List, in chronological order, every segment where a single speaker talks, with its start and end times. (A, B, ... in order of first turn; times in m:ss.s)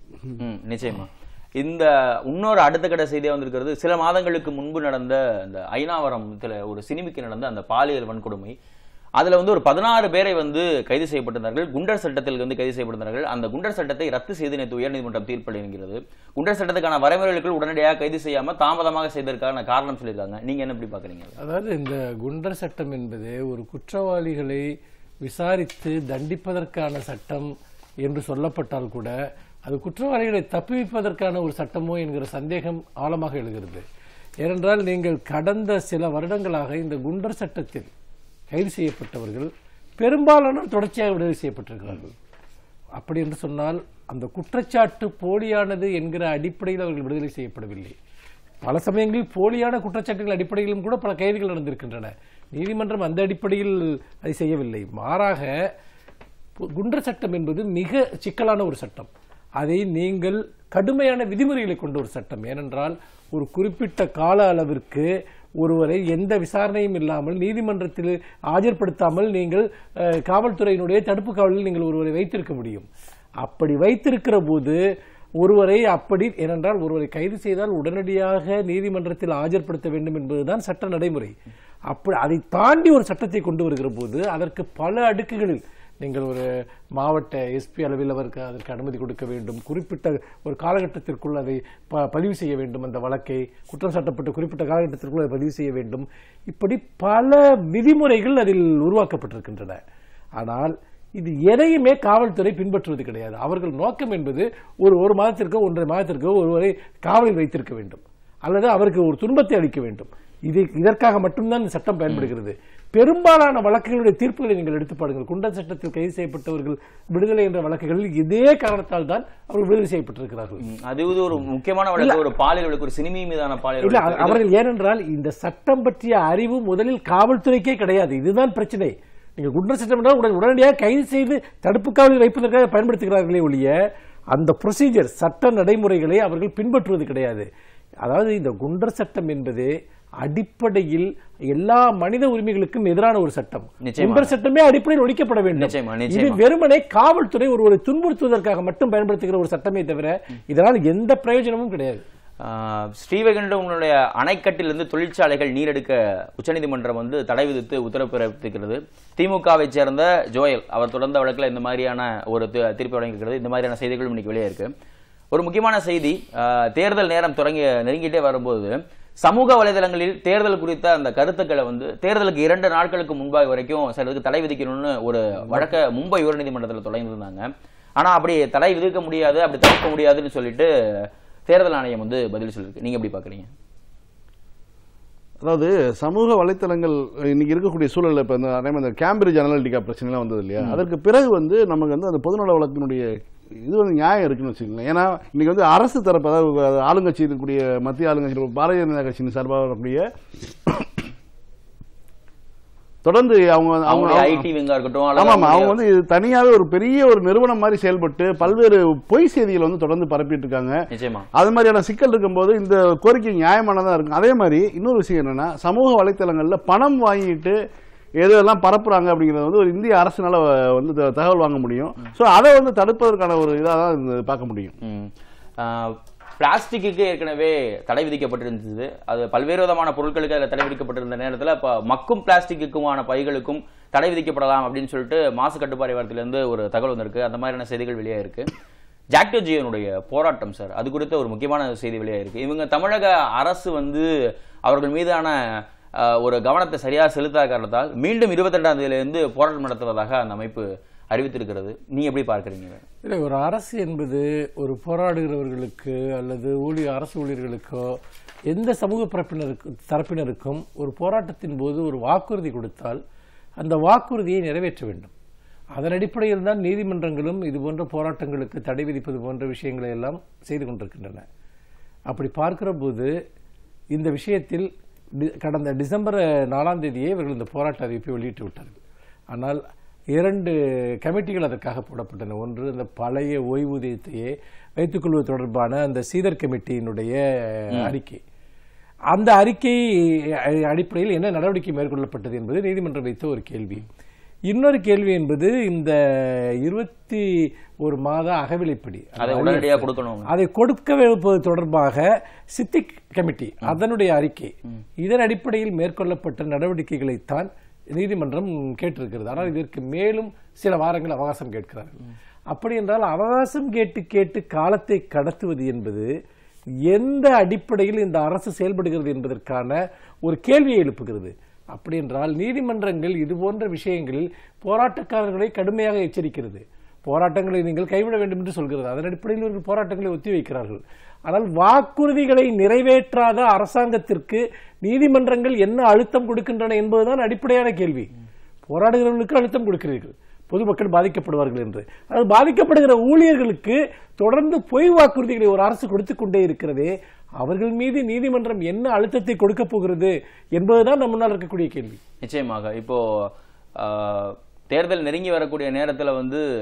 0:00.4-0:08.5 A
0:09.2-0:21.4 A
0:21.4-0:24.6 B
0:25.2-0:27.5 B
0:28.0-0:29.1 B
0:29.6-0:33.8 B
0:34.4-0:37.9 B
0:38.5-0:42.1 B
0:43.0-0:47.9 B
0:48.6-0:55.5 B
0:56.6-0:59.1 B
0:59.6-1:05.1 B
1:05.6-1:12.9 B
1:13.4-1:14.8 B
1:15.4-1:21.3 B
1:21.9-1:26.5 B
1:27.0-1:39.8 B
1:40.4-2:00.6 B
2:00.6-2:04.4 A
2:03.8-2:13.7 B
2:14.3-2:17.5 B
2:18.0-2:32.0 B
2:23.8-2:24.3 A
2:25.5-2:26.4 A
2:32.4-2:44.7 A
2:45.3-2:57.4 A
2:58.0-3:03.5 A
3:05.4-3:13.0 C
3:13.6-3:21.1 C
3:23.0-3:24.4 C
3:23.9-3:25.8 A
3:25.2-3:30.8 C
3:30.9-3:31.3 A
3:31.4-3:37.6 C
3:38.2-3:44.7 C
3:44.8-3:58.5 A
3:59.1-4:12.8 A
4:13.0-4:18.0 B
4:18.5-4:23.0 B
4:23.6-4:25.1 B
4:25.8-4:31.2 B
4:32.1-4:33.1 B
4:33.9-4:34.7 B
4:35.2-4:38.8 B
4:39.3-4:39.6 B
4:40.2-4:48.2 B
4:49.1-4:49.8 B
4:50.7-4:53.8 B
4:54.5-5:16.1 B
4:59.2-5:00.3 A
5:16.9-5:38.1 B
5:38.7-5:52.0 B
5:52.2-5:56.4 A